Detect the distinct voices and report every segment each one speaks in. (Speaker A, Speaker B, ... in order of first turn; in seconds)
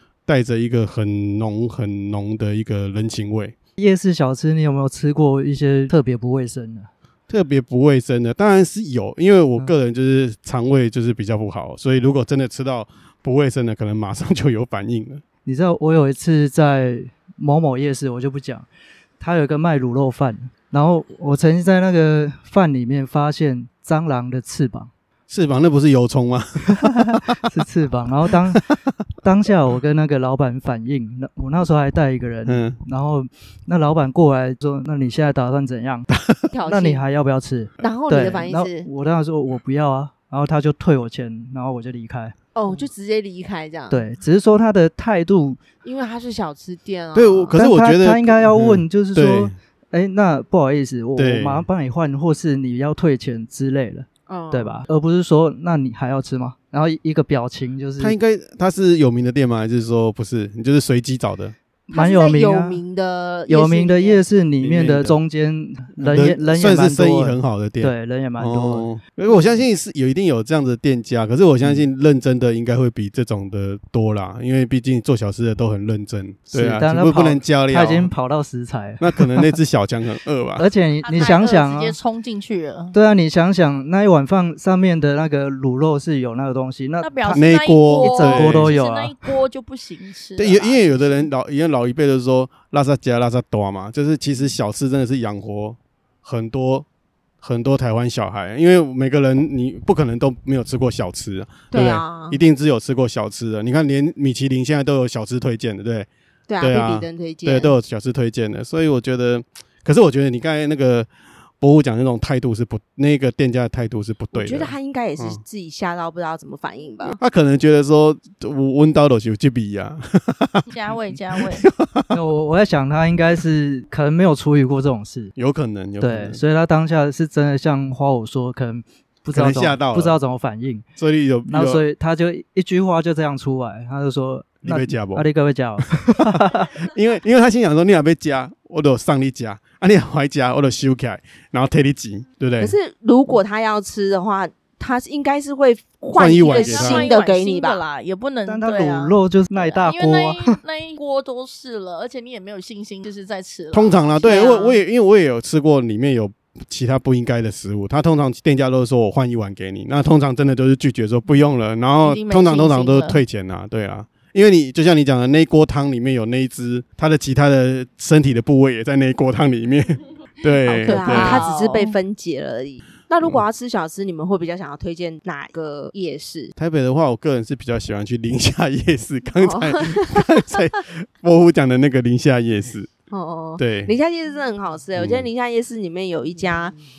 Speaker A: 0.3-3.5, 7.3-15.2, 25.3-27.2, 32.5-32.8, 47.1-49.5, 51.2-51.7, 58.0-61.5, 64.6-65.2, 66.0-78.1, 79.0-80.7, 87.3-88.7, 90.4-96.9, 97.4-106.1, 106.6-111.1, 111.6-115.4, 117.0-120.7, 121.5-122.2, 125.4-126.4, 129.3-130.2, 131.0-131.8, 134.6-135.3, 136.8-142.8, 146.1-147.1, 153.7-171.4, 176.6-182.9, 183.6-183.9, 185.0-185.3
Speaker B: 3.8-6.9, 15.4-18.7, 19.2-24.9, 26.8-28.7, 29.2-36.1, 36.7-42.4, 43.9-45.6, 47.5-58.1, 61.9-62.8, 63.5-68.9, 76.5-79.5, 80.6-82.0, 82.9-89.3, 122.1-125.3, 126.0-130.8, 131.5-136.7, 148.5-150.6
Speaker C: 36.5-37.0, 37.8-38.9, 42.5-44.1, 45.8-47.6, 54.3-54.9, 61.9-64.2, 101.7-102.4, 106.5-107.7, 114.3-117.2, 142.6-147.8, 154.2-154.8, 170.7-176.5, 179.4-180.7, 183.1-186.8
Speaker D: 81.0-83.0, 87.0-90.8, 120.7-121.7, 146.4-154.7, 162.0-163.2, 170.8-172.0